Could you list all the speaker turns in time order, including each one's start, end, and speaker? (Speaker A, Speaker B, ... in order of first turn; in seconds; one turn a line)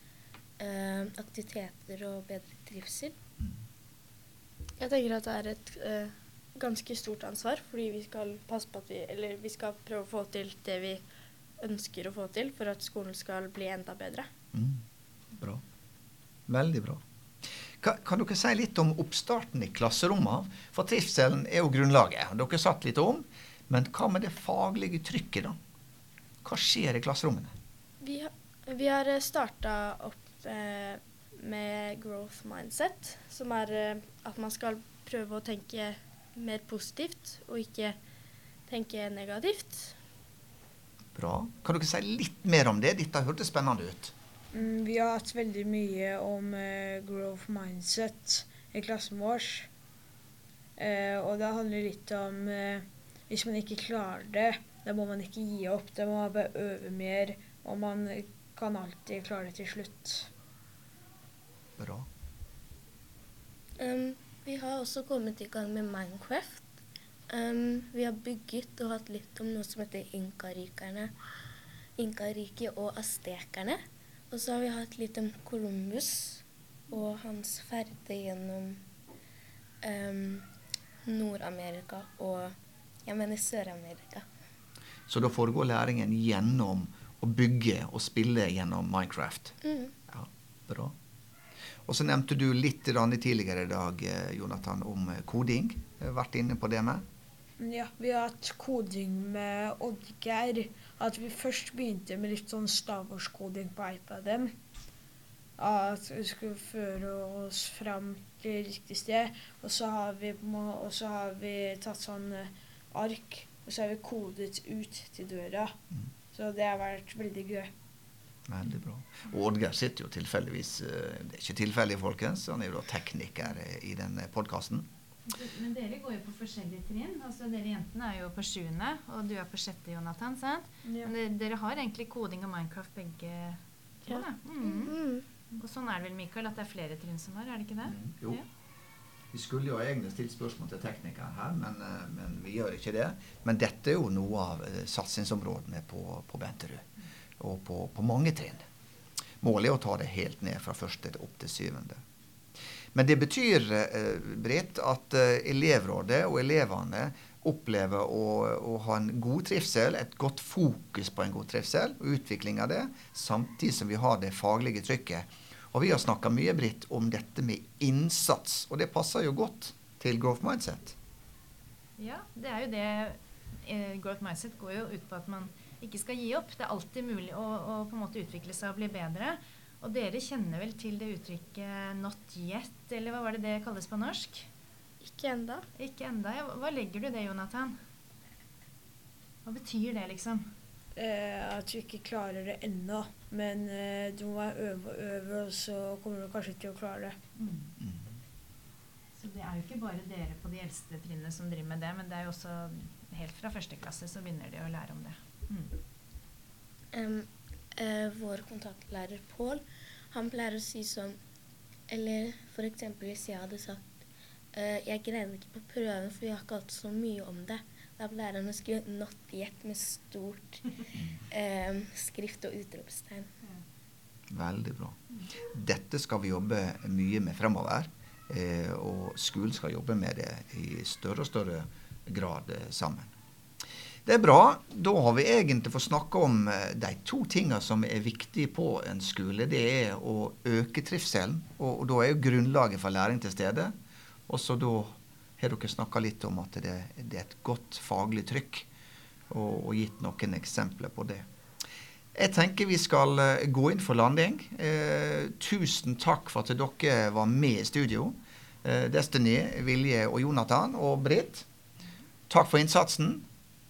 Speaker A: 0.6-3.1
Speaker B: 4.8-11.0
Speaker B: 11.6-14.3
Speaker C: 14.5-14.8
Speaker C: 16.5-17.0
Speaker C: 17.8-25.6
Speaker C: 26.4-27.5
Speaker B: 28.0-38.0
Speaker B: 38.7-40.0
Speaker C: 41.1-44.1
Speaker D: 44.5-49.7
Speaker D: 50.8-60.3
Speaker C: 61.8-62.1
Speaker A: 63.8-66.7
Speaker A: 67.3-71.1
Speaker A: 72.0-73.8
Speaker A: 74.3-78.8
Speaker A: 79.8-80.5
Speaker A: 81.1-84.2
Speaker C: 85.1-89.6
Speaker A: 89.6-89.9
Speaker C: 90.1-90.9
Speaker C: 91.9-97.0
Speaker D: 97.6-104.5
Speaker D: 105.6-115.7
Speaker D: 116.3-117.7
Speaker C: 118.5-124.9
Speaker E: 125.3-135.0
Speaker D: 130.8-131.1
Speaker B: 134.1-135.2
Speaker E: 135.5-138.4
Speaker C: 137.8-138.4
Speaker C: 139.3-146.9
Speaker C: 147.4-148.6
Speaker C: 149.4-152.0
Speaker C: 152.9-171.0
Speaker E: 172.0-184.5
Speaker B: 185.0-185.6
Speaker E: 185.8-187.8
Speaker E: 189.4-190.5
Speaker D: 191.0-197.2
Speaker E: 197.4-197.7
Speaker C: 197.8-198.1
Speaker E: 199.2-205.8
Speaker A: 206.9-211.2
Speaker A: 211.9-213.9
Speaker A: 214.5-220.8
Speaker A: 221.3-223.3
Speaker C: 224.3-225.0
Speaker C: 225.5-233.1
Speaker C: 234.1-243.7
Speaker C: 244.3-248.7
Speaker C: 249.3-251.2
Speaker C: 252.2-261.5
Speaker C: 262.3-263.2